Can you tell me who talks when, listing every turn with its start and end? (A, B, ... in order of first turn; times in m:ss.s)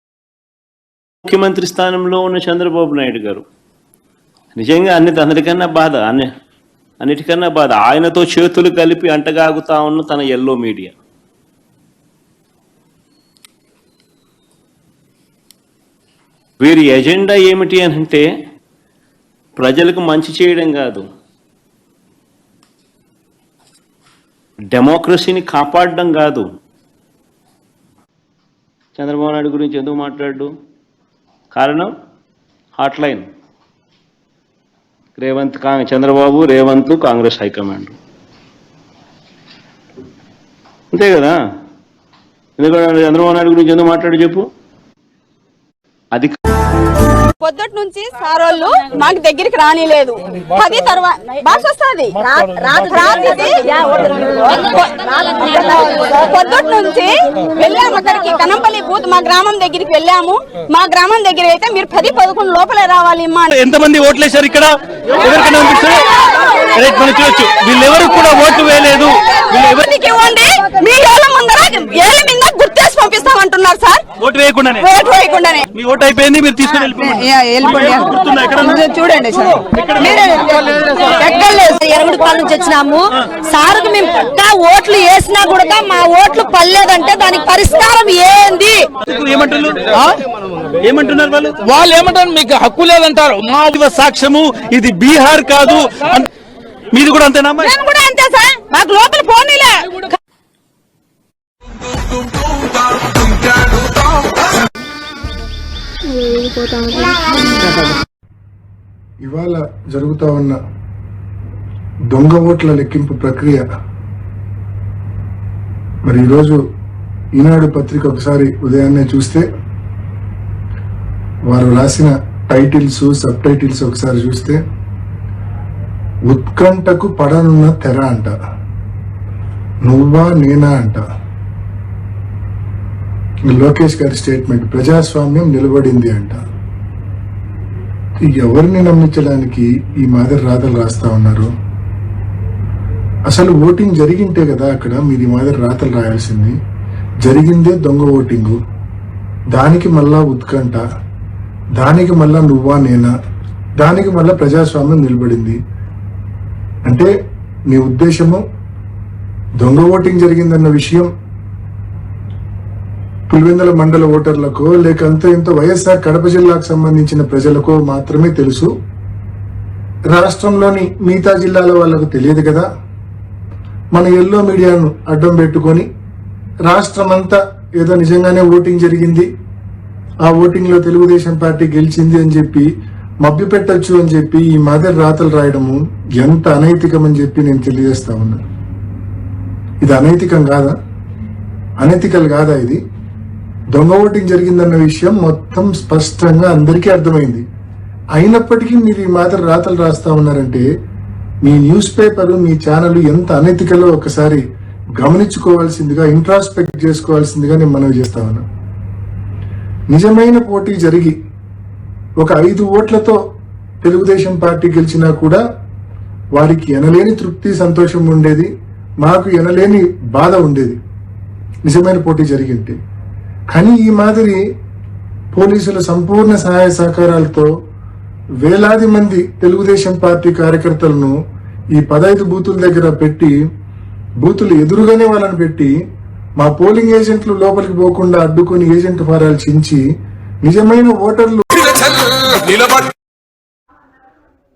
0:01.2-0:03.4 A
0:04.6-0:06.3 A
0:07.0-0:10.9 A
0:16.6-0:18.2 A
0:19.6-0:21.0 A
0:24.7-0:26.4 A
0:28.9-0:30.5 A
0:31.5-0:31.9 A
0:32.8-0:33.2 A
0:35.2-0:37.9 A
0:40.9-0:41.3 A
0:42.6-0:44.4 A
0:47.4-1:03.6 B
0:52.3-0:53.0 C
1:03.5-1:06.1 D
1:06.3-1:06.6 B
1:06.8-1:09.8 D
1:09.3-1:14.1 B
1:14.2-1:14.8 D
1:14.8-1:15.6 B
1:15.7-1:18.8 D
1:19.7-1:21.2 D
1:21.2-1:28.9 C
1:29.1-1:30.2 D
1:30.8-1:31.7 D
1:31.7-1:33.7 E
1:33.6-1:36.3 D
1:36.9-1:37.7 D
1:37.6-1:40.0 B
1:49.2-1:50.6 F
1:52.1-1:53.6 F
1:56.0-1:56.6 F
1:57.4-1:59.4 F
2:01.5-2:04.6 F
2:06.3-2:08.3 F
2:09.8-2:11.0 F
2:13.5-2:16.4 F
2:18.2-2:21.5 F
2:23.3-2:26.6 F
2:27.2-2:28.6 F
2:29.5-2:30.8 F
2:31.8-2:33.1 F
2:33.8-2:35.6 F
2:37.7-2:38.4 F
2:39.6-2:41.1 F
2:43.3-2:48.7 F
2:50.1-2:52.7 F
2:53.9-2:55.9 F
2:56.7-2:59.3 F
3:00.2-3:02.7 F
3:03.2-3:08.4 F
3:09.8-3:10.7 F
3:11.8-3:12.8 F
3:13.7-3:17.4 F
3:18.2-3:20.6 F
3:21.4-3:24.4 F
3:25.0-3:28.4 F
3:29.9-3:31.1 F
3:32.2-3:33.2 F
3:33.8-3:35.4 F
3:36.3-3:38.5 F
3:39.0-3:40.8 F
3:41.6-3:42.8 F
3:43.5-3:44.4 F
3:45.3-3:47.5 F
3:48.4-3:51.2 F
3:51.7-3:53.3 F
3:54.2-3:55.7 F
3:56.4-3:59.8 F
4:00.4-4:01.7 F